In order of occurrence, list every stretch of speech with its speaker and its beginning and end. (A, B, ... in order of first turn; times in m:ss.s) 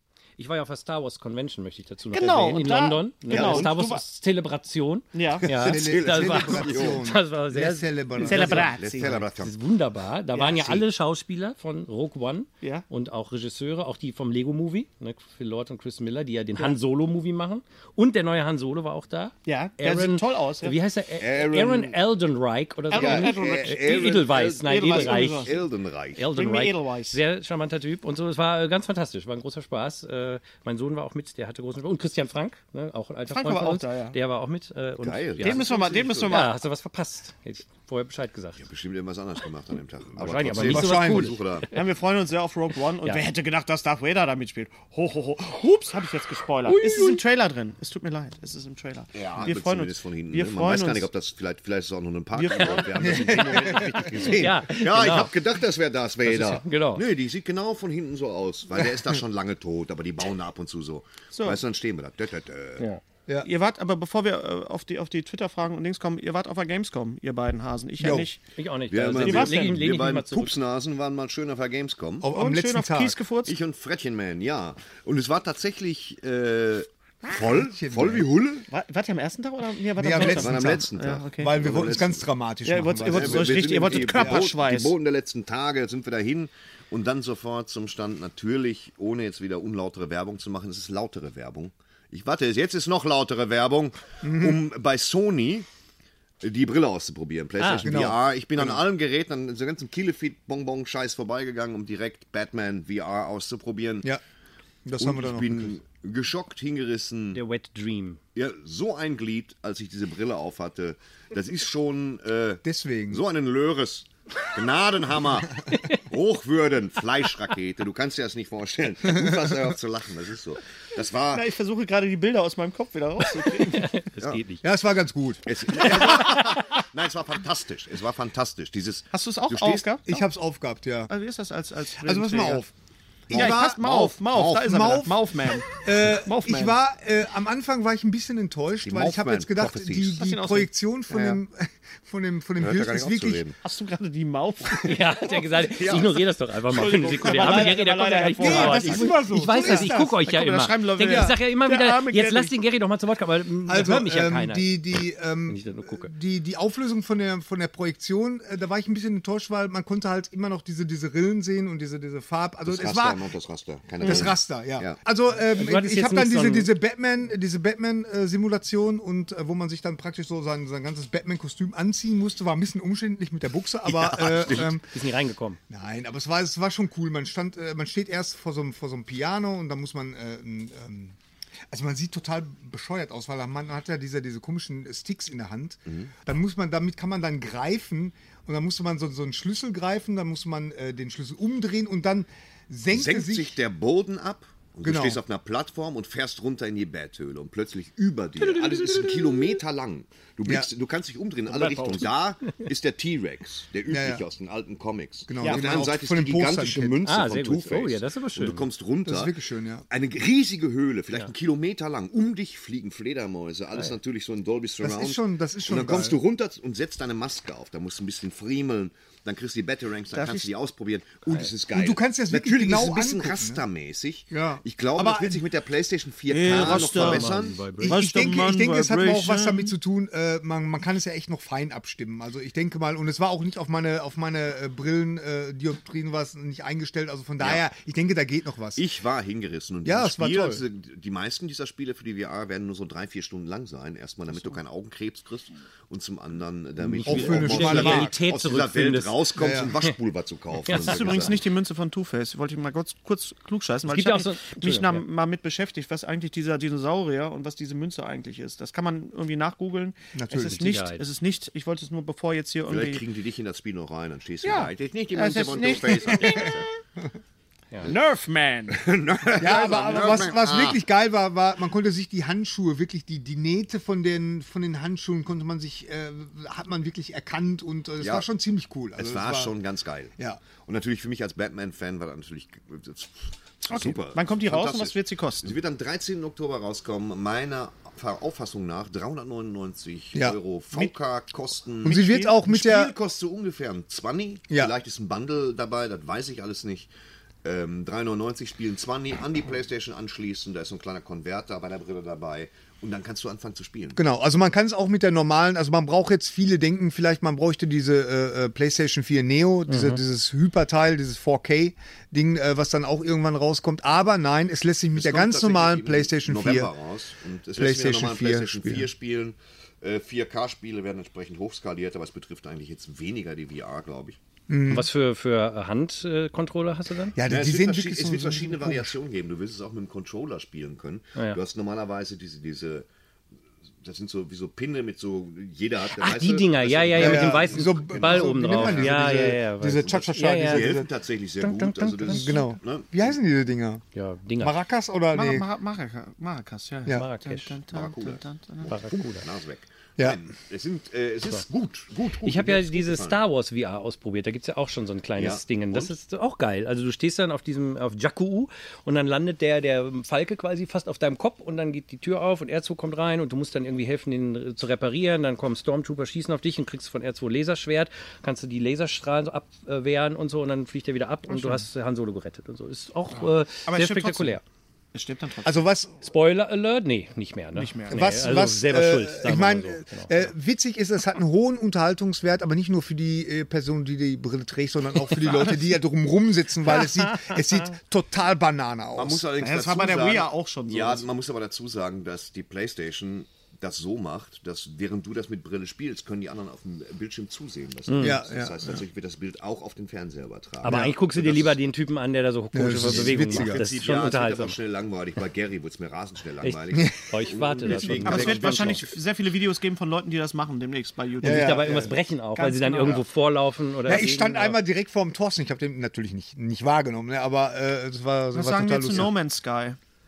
0:00.4-0:25.6 A
0:02.1-0:04.0 B
0:03.3-0:03.7 C
0:05.1-0:05.5 B
0:05.4-0:07.1 C
0:05.6-0:08.7 D
0:08.2-0:09.2 B
0:08.4-0:09.5 C
0:10.4-0:10.6 B
0:10.4-0:10.8 C
0:19.5-0:20.8 B
0:21.2-0:22.0 C
0:22.9-0:25.6 B
0:22.9-0:26.2 C
0:26.2-0:35.7 A
0:26.2-0:27.2 B
0:33.3-0:34.2 B
0:35.0-0:36.4 C
0:35.4-0:36.6 B
0:36.2-0:38.6 A
0:38.6-0:41.7 C
0:40.2-0:41.8 A
0:40.6-0:41.4 D
0:41.7-0:51.1 B
0:46.7-0:47.2 A
0:49.1-1:02.9 C
0:52.3-0:53.4 B
0:52.6-0:55.4 A
0:53.0-0:54.1 D
0:56.2-0:57.1 A
1:01.3-1:01.6 B
1:03.4-1:08.4 B
1:08.0-1:08.3 D
1:08.6-1:10.6 A
1:08.9-1:12.3 C
1:09.1-1:09.7 B
1:12.2-1:13.2 D
1:12.3-1:13.5 B
1:13.4-1:18.7 C
1:17.3-1:18.3 D
1:18.7-1:21.5 B
1:20.0-1:24.4 D
1:20.2-1:22.2 C
1:22.7-1:24.9 B
1:23.0-1:35.7 C
1:34.2-1:34.6 D
1:36.4-1:44.1 C
1:37.6-1:38.0 A
1:37.8-1:38.8 D
1:44.8-1:45.8 D
1:45.0-1:47.4 C
1:47.3-1:48.2 A
1:48.4-2:01.5 C
1:52.6-1:53.2 D
1:55.7-1:56.0 A
1:59.0-1:59.8 D
2:01.3-2:03.9 B
2:03.3-2:04.6 A
2:04.6-2:06.2 D
2:05.4-2:09.9 C
2:09.1-2:10.2 B
2:10.1-2:11.1 D
2:11.1-2:12.7 B
2:12.0-2:12.7 D
2:13.3-2:14.6 C
2:13.3-2:15.2 D
2:13.3-2:16.8 B
2:15.7-2:23.4 D
2:18.8-2:20.2 C
2:20.2-2:20.7 B
2:21.1-2:21.4 C
2:22.6-2:23.6 C
2:23.6-2:25.4 B
2:24.8-2:34.7 A
2:25.7-2:26.2 C
2:26.7-2:32.5 B
2:26.7-2:27.6 C
2:27.4-2:27.7 D
2:28.4-2:30.1 D
2:28.6-2:29.0 C
2:33.7-2:43.2 D
2:35.5-2:36.1 A
2:42.7-2:45.0 C
2:44.0-2:54.9 D
2:45.5-2:46.7 A
2:53.9-2:54.8 C
2:54.4-2:55.6 A
2:55.7-3:01.2 D
3:01.7-3:13.6 D
3:05.9-3:06.1 C
3:12.9-3:29.4 C
3:14.8-3:15.2 D
3:18.4-3:19.6 A
3:21.5-3:22.1 A
3:23.9-3:24.2 D
3:25.3-3:27.0 D
3:27.0-3:28.7 A
3:29.0-3:29.8 D
3:29.9-3:47.7 C
3:34.8-3:36.2 D
3:40.1-3:40.5 B
3:41.7-3:43.6 D
3:44.3-3:45.4 D
3:46.3-3:47.3 B
3:46.4-3:48.1 A
3:47.8-3:58.8 D
3:47.8-3:49.7 B
3:57.4-3:57.7 C
3:58.8-4:11.4 C
3:59.8-4:00.6 D
4:06.8-4:10.0 A
4:07.0-4:08.1 D
4:09.4-4:09.7 D
4:10.6-4:11.3 A
4:10.7-4:23.0 B
4:13.9-4:15.0 A
4:20.1-4:20.6 D
4:20.5-4:21.0 A
4:22.7-4:26.7 C
4:24.4-4:26.6 B
4:27.8-4:28.8 B
4:28.7-4:30.8 C
4:29.4-4:39.5 D
4:29.5-4:30.0 B
4:38.0-4:38.3 C
4:39.0-4:56.9 C
4:43.7-4:45.6 B
4:51.8-4:52.9 D
4:51.9-4:52.4 B
4:57.4-5:04.0 C
5:04.0-5:16.7 D
5:09.7-5:10.0 A
5:15.0-5:24.2 C
5:17.6-5:18.9 D
5:24.5-5:24.9 D
5:24.7-5:27.2 A
5:27.2-5:29.0 D
5:27.2-5:32.9 C
5:33.8-5:43.2 C
5:35.9-5:40.8 A
5:37.0-5:40.9 D
5:41.4-5:42.4 A
5:42.1-5:43.8 D
5:44.0-5:44.6 A
5:44.4-5:45.5 D
5:45.1-5:48.8 B
5:46.9-5:47.6 A
5:47.7-5:53.2 C
5:48.7-5:49.3 A
5:52.2-6:14.4 A
5:55.2-5:56.0 C
6:11.3-6:11.6 B
6:13.6-6:14.4 B
6:14.9-6:15.6 B
6:15.4-6:15.9 D
6:16.0-6:20.3 A
6:17.6-6:18.1 B
6:17.9-6:29.3 D
6:26.7-6:27.4 A
6:29.0-6:41.6 C
6:29.4-6:31.1 B
6:37.9-6:38.2 A
6:38.0-6:38.8 D
6:40.6-6:44.6 A
6:40.6-6:40.9 D
6:42.5-6:43.6 D
6:42.8-6:48.9 C
6:46.4-6:48.8 A
6:47.8-6:53.0 B
6:51.2-6:51.9 D
6:51.2-6:54.6 A
6:53.9-6:59.1 D
6:58.3-6:59.8 B